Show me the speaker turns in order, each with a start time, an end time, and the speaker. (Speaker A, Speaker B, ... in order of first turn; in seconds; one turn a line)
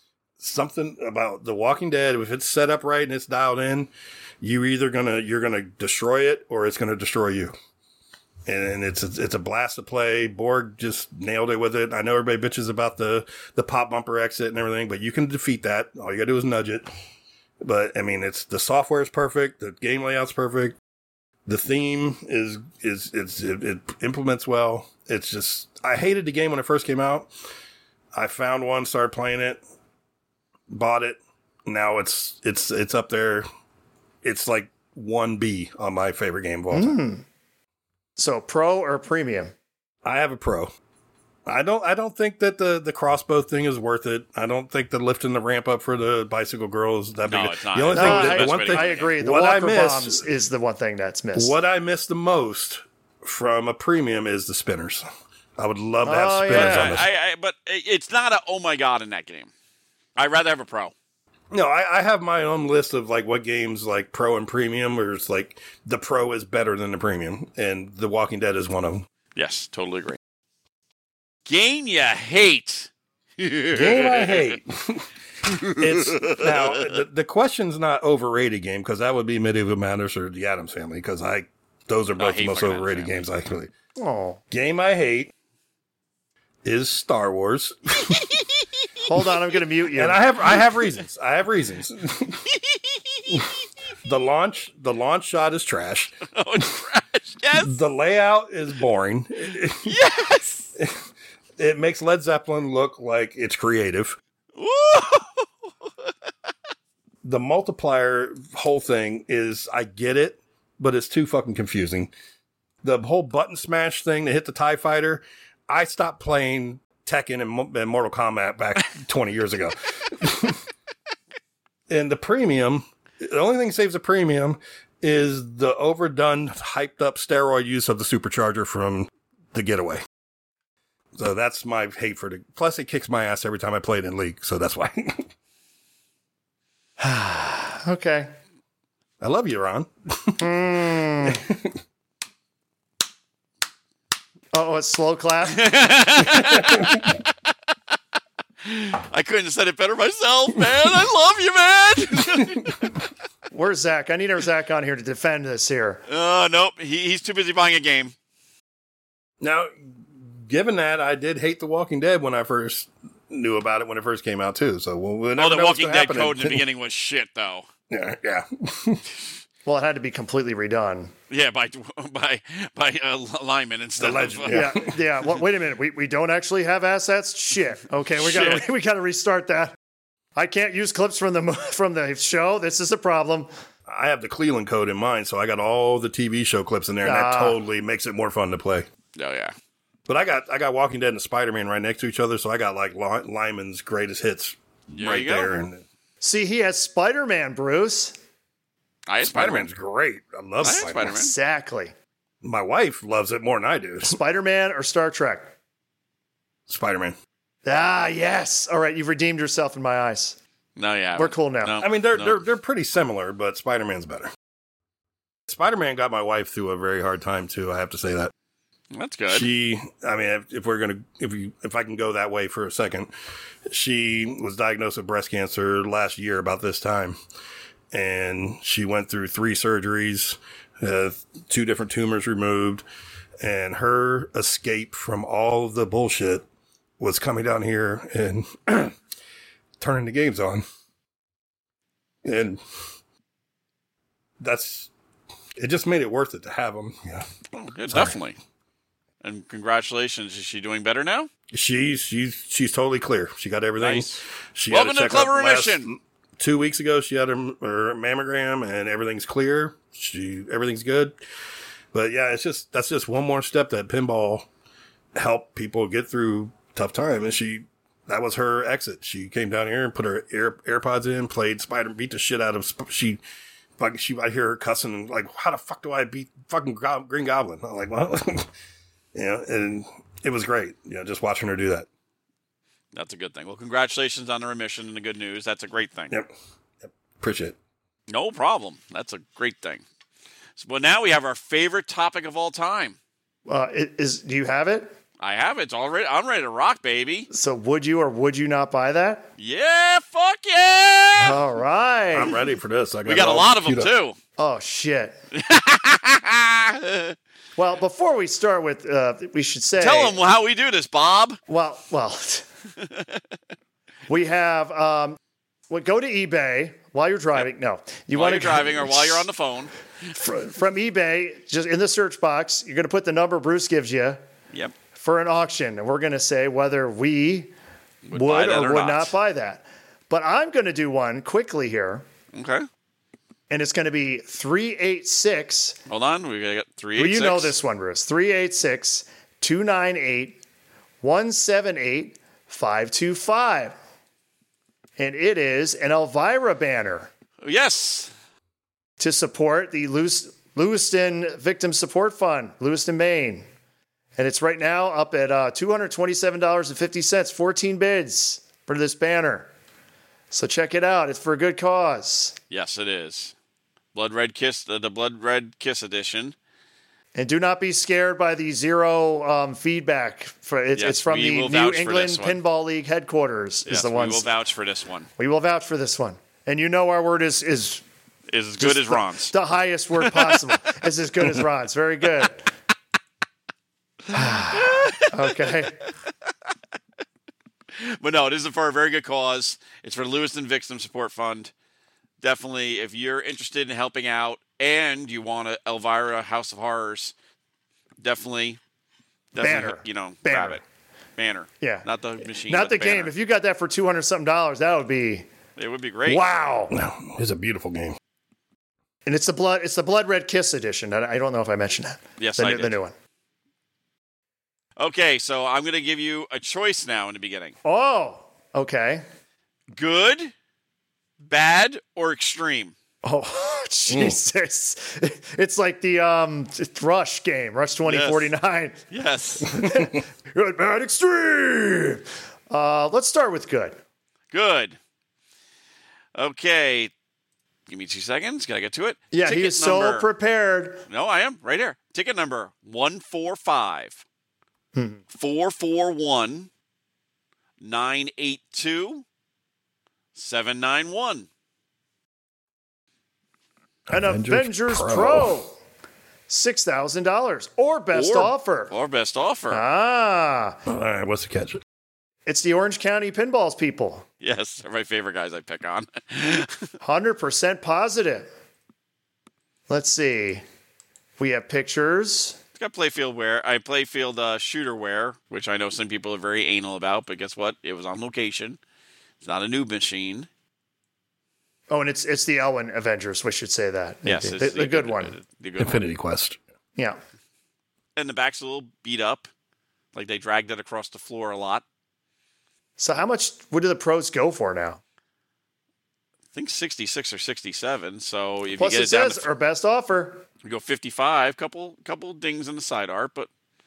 Speaker A: 0.4-7.5
Speaker A: 8.5-16.9
Speaker A: 17.6-20.8
Speaker A: 21.5-27.3
Speaker A: 28.1-29.6
Speaker A: 30.7-33.5
Speaker A: 34.2-37.0
Speaker B: 36.7-37.2
Speaker B: 38.2-39.5
Speaker A: 40.0-40.7
Speaker A: 41.5-50.3
Speaker C: 47.3-49.1
Speaker B: 47.9-51.5
Speaker A: 51.4-57.1
Speaker B: 56.0-57.0
Speaker C: 56.5-59.5
Speaker C: 60.2-60.9
Speaker A: 61.5-69.1
Speaker C: 69.3-70.2
Speaker C: 71.5-74.6
Speaker A: 73.7-83.7
Speaker C: 75.5-76.9
Speaker C: 82.2-83.2
Speaker B: 84.0-84.4
Speaker A: 84.5-85.3
Speaker A: 86.7-88.3
Speaker B: 89.0-90.2
Speaker A: 89.9-92.5
Speaker C: 92.7-93.2
Speaker A: 93.3-96.6
Speaker C: 96.3-97.8
Speaker A: 97.6-100.0
Speaker C: 99.8-100.7
Speaker A: 100.8-101.0
Speaker A: 101.6-104.2
Speaker C: 104.6-105.5
Speaker A: 107.2-112.1
Speaker A: 112.8-120.6
Speaker A: 121.9-130.0
Speaker A: 131.2-135.3
Speaker B: 137.0-138.3
Speaker A: 139.2-140.5
Speaker B: 140.4-141.4
Speaker A: 141.2-141.8
Speaker B: 144.5-145.7
Speaker C: 145.4-147.2
Speaker A: 146.3-147.1
Speaker C: 148.6-152.9
Speaker A: 152.2-152.9
Speaker B: 153.5-156.0
Speaker C: 156.1-158.1
Speaker A: 159.4-166.6
Speaker C: 165.4-167.7
Speaker A: 167.9-169.0
Speaker B: 169.7-171.1
Speaker C: 171.3-174.8
Speaker A: 174.0-174.9
Speaker B: 174.5-179.8
Speaker C: 178.2-178.7
Speaker B: 180.4-183.5
Speaker A: 183.9-188.9
Speaker B: 187.0-187.6
Speaker C: 189.2-189.5
Speaker A: 190.1-195.8
Speaker C: 194.9-195.5
Speaker B: 196.2-198.2
Speaker C: 199.1-199.7
Speaker A: 199.2-201.1
Speaker C: 200.6-201.3
Speaker B: 201.0-201.9
Speaker A: 202.4-204.2
Speaker B: 204.0-205.5
Speaker A: 206.7-207.2
Speaker B: 207.7-210.4
Speaker C: 210.8-212.4
Speaker B: 211.2-211.8
Speaker A: 211.8-214.3
Speaker A: 215.5-218.3
Speaker C: 218.9-219.5
Speaker A: 219.3-223.1
Speaker A: 223.7-227.2
Speaker A: 227.9-232.9
Speaker A: 233.4-236.5
Speaker A: 237.0-239.0
Speaker A: 239.8-240.7
Speaker A: 242.2-242.6
Speaker A: 244.4-244.9
Speaker A: 245.6-247.3
Speaker C: 247.5-248.4
Speaker A: 247.9-248.2
Speaker C: 249.2-251.3
Speaker A: 251.5-261.2
Speaker C: 253.8-255.9
Speaker A: 261.9-264.5
Speaker A: 265.1-273.2
Speaker A: 273.8-278.5
Speaker A: 279.1-281.9
Speaker C: 282.9-286.1
Speaker A: 286.8-287.6
Speaker C: 288.1-289.8
Speaker C: 290.6-293.0
Speaker B: 293.5-294.9
Speaker C: 295.2-297.3
Speaker B: 297.3-299.3
Speaker C: 299.4-301.4
Speaker B: 301.2-302.3
Speaker A: 302.1-303.9
Speaker C: 303.1-304.2
Speaker B: 304.4-305.2
Speaker C: 305.3-307.2
Speaker B: 307.6-310.2
Speaker C: 309.8-311.4
Speaker B: 311.5-312.4
Speaker C: 312.8-313.2
Speaker B: 314.1-315.2
Speaker B: 315.7-319.3
Speaker C: 318.1-319.7
Speaker B: 320.1-324.2
Speaker B: 324.9-327.5
Speaker C: 328.1-329.1
Speaker B: 328.1-332.1
Speaker C: 332.3-332.7
Speaker B: 333.5-335.8
Speaker C: 335.9-337.6
Speaker B: 337.0-340.4
Speaker B: 341.0-343.8
Speaker B: 345.0-347.1
Speaker C: 347.4-348.1
Speaker B: 349.0-353.5
Speaker B: 354.2-359.5
Speaker B: 360.3-362.4
Speaker C: 362.5-363.3
Speaker C: 363.9-366.4
Speaker B: 367.1-374.3
Speaker C: 370.8-372.4
Speaker C: 373.7-375.1
Speaker B: 375.2-377.8
Speaker C: 378.3-379.3
Speaker B: 378.6-382.5
Speaker C: 380.0-380.4
Speaker B: 384.1-385.8
Speaker C: 384.5-385.6
Speaker C: 387.7-391.5
Speaker C: 392.2-397.1
Speaker C: 398.0-398.6
Speaker C: 399.3-400.6
Speaker B: 399.4-400.6
Speaker C: 401.2-403.1
Speaker B: 401.6-401.9
Speaker B: 402.5-405.3
Speaker C: 405.6-406.2
Speaker B: 406.1-406.8
Speaker A: 406.7-408.0
Speaker B: 409.1-412.9
Speaker C: 412.2-412.8
Speaker C: 414.8-417.6
Speaker B: 417.6-419.0
Speaker C: 419.7-420.3
Speaker C: 421.2-422.7
Speaker B: 423.0-428.8
Speaker A: 423.9-424.2
Speaker C: 427.9-428.3
Speaker C: 428.9-429.6
Speaker B: 429.5-433.8
Speaker C: 434.3-434.8
Speaker C: 436.1-436.9
Speaker C: 437.7-440.1
Speaker B: 439.1-440.8
Speaker C: 440.9-444.0
Speaker B: 444.8-445.0
Speaker C: 445.1-446.5
Speaker C: 447.6-449.0
Speaker C: 450.1-451.3
Speaker A: 453.9-455.4
Speaker B: 453.9-455.6
Speaker B: 456.3-458.7
Speaker C: 457.9-459.6
Speaker B: 459.5-460.6
Speaker A: 460.7-461.6
Speaker B: 462.3-464.1
Speaker C: 464.2-466.7
Speaker B: 466.8-468.3
Speaker B: 469.7-470.4
Speaker B: 471.2-472.4
Speaker C: 472.6-478.6
Speaker C: 479.2-480.3
Speaker B: 481.7-485.1
Speaker C: 484.1-485.8
Speaker A: 485.6-486.4
Speaker C: 488.0-489.3
Speaker C: 489.9-491.6
Speaker B: 492.8-494.8
Speaker C: 496.3-499.3
Speaker B: 498.6-500.2
Speaker C: 500.4-503.3